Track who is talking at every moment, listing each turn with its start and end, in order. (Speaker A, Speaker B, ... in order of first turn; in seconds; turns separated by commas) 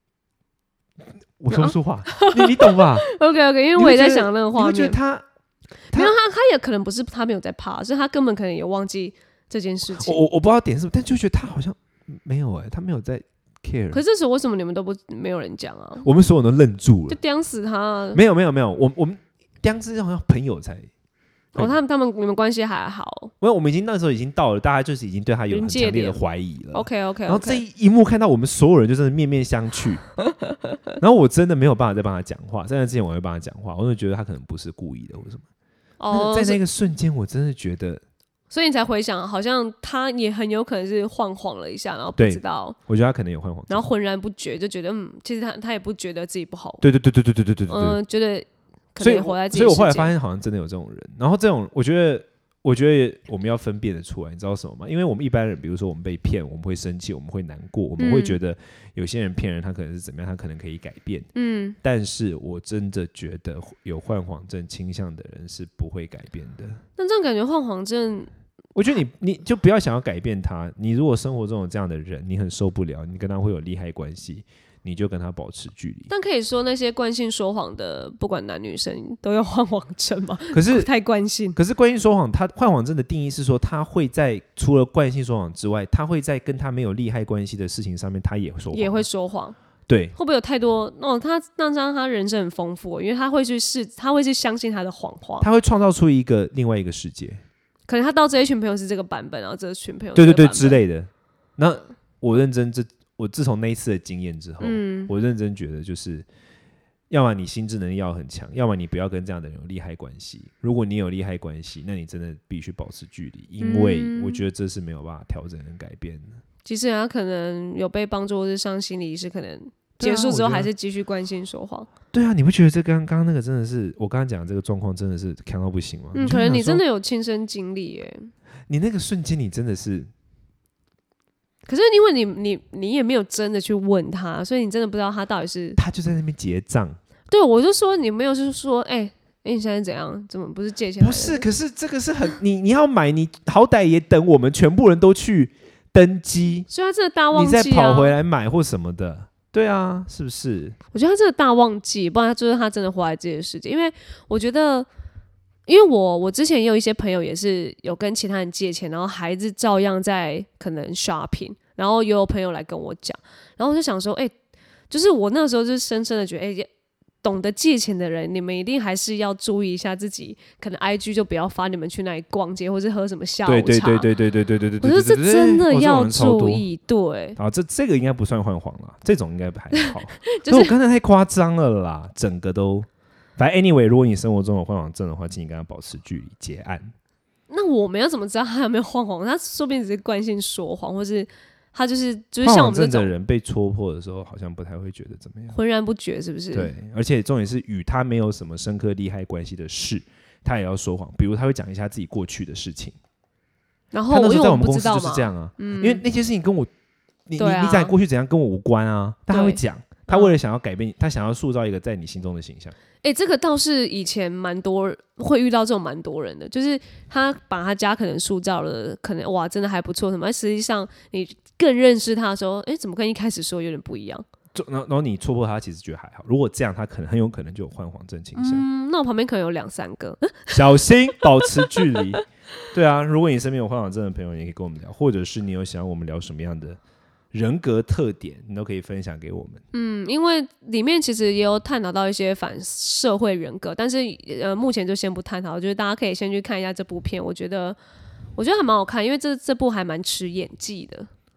Speaker A: 1.4-3.1, Speaker B: 1.5-5.0, Speaker A: 3.7-5.2, Speaker B: 5.9-10.2, Speaker A: 9.9-14.0, Speaker B: 13.9-16.0, Speaker A: 16.0-17.2, Speaker B: 17.1-18.2, Speaker A: 18.1-20.9, Speaker B: 21.5-23.3, Speaker A: 23.4-30.0, Speaker B: 25.5-26.2, Speaker B: 26.7-27.6, Speaker A: 31.0-35.4, Speaker B: 36.0-36.6, Speaker A: 36.1-38.0, Speaker B: 38.5-42.8, Speaker A: 42.2-43.9, Speaker B: 43.7-46.8, Speaker A: 46.8-48.0, Speaker B: 47.7-50.1, Speaker A: 49.0-61.3, Speaker B: 58.0-58.4, Speaker B: 61.4-61.8, Speaker A: 61.8-66.8, Speaker B: 67.0-68.3, Speaker A: 68.7-76.1, Speaker B: 76.1-81.6, Speaker A: 80.5-80.9, Speaker A: 81.5-89.0, Speaker B: 88.7-89.5, Speaker A: 89.9-90.1, Speaker B: 90.2-95.5, Speaker A: 95.4-97.4, Speaker B: 97.9-100.8, Speaker A: 100.1-106.2, Speaker B: 104.6-105.1, Speaker A: 107.1-116.3, Speaker B: 113.6-114.4, Speaker B: 116.6-121.9, Speaker A: 120.0-120.7, Speaker A: 122.1-126.8, Speaker B: 126.1-128.3, Speaker A: 128.7-130.1, Speaker B: 131.7-135.8, Speaker A: 135.8-137.0, Speaker B: 137.3-141.4, Speaker A: 141.0-146.7, Speaker B: 146.7-148.1, Speaker A: 147.3-150.8, Speaker B: 150.9-154.9, Speaker B: 155.7-164.3, Speaker B: 164.9-166.7, Speaker B: 167.2-174.1, Speaker A: 173.4-176.7, Speaker B: 174.8-177.4, Speaker A: 177.3-186.9, Speaker B: 179.8-180.7, Speaker B: 187.5-193.1, Speaker A: 192.4-195.6, Speaker B: 195.5-196.7, Speaker A: 196.5-202.9, Speaker B: 203.9-206.0, Speaker A: 204.1-206.7, Speaker A: 207.3-212.8, Speaker B: 207.4-207.9, Speaker B: 209.3-210.3, Speaker B: 213.0-224.2, Speaker A: 224.5-228.7, Speaker B: 228.3-230.6, Speaker A: 230.5-236.8, Speaker A: 237.3-239.6, Speaker B: 239.7-247.8, Speaker B: 248.3-251.1